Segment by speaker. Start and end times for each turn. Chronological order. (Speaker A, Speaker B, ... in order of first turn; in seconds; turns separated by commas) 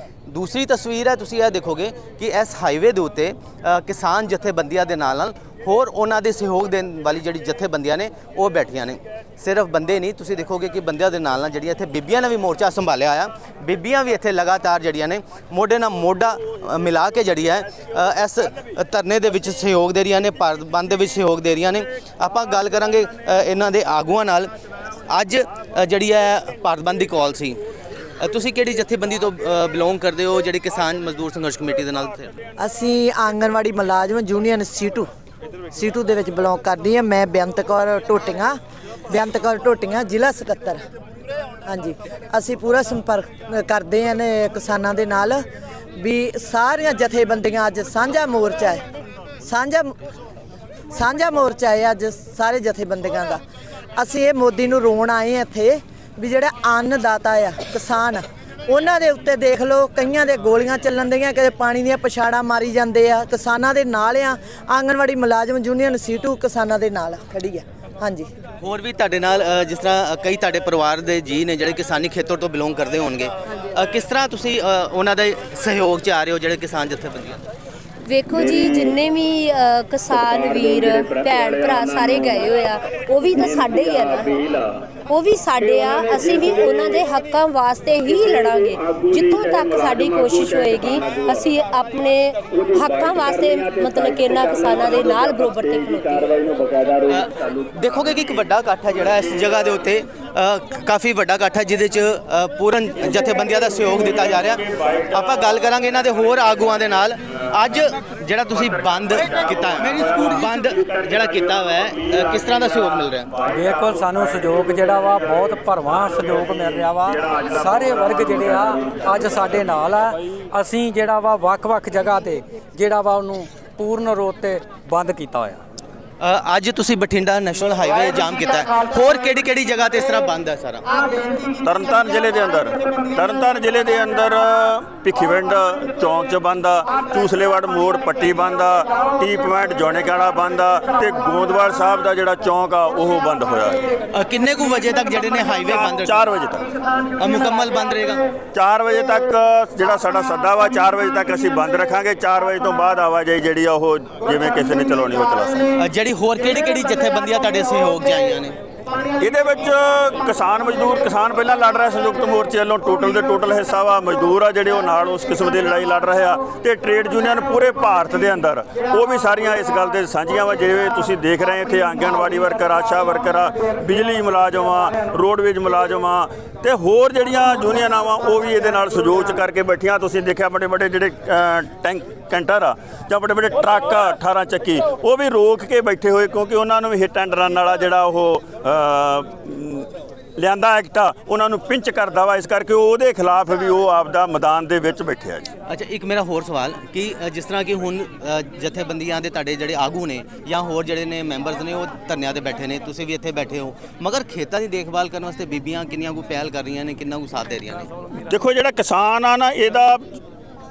Speaker A: 0.3-24.5, Speaker A: 25.1-27.6, Speaker A: 28.2-32.3, Speaker B: 32.6-35.1, Speaker B: 35.7-38.6, Speaker B: 39.1-40.8, Speaker B: 41.6-45.4, Speaker B: 46.0-48.8, Speaker B: 49.4-49.9, Speaker B: 50.9-53.4, Speaker B: 54.0-68.3, Speaker A: 68.6-77.4, Speaker C: 78.0-96.6, Speaker A: 97.0-113.3, Speaker D: 113.5-125.6, Speaker A: 126.2-131.1, Speaker E: 131.6-143.9, Speaker A: 144.1-146.3, Speaker E: 145.7-146.7, Speaker A: 147.2-148.2, Speaker E: 148.5-155.7, Speaker A: 155.8-158.6, Speaker E: 159.2-195.5, Speaker A: 195.7-207.9, Speaker E: 208.2-210.0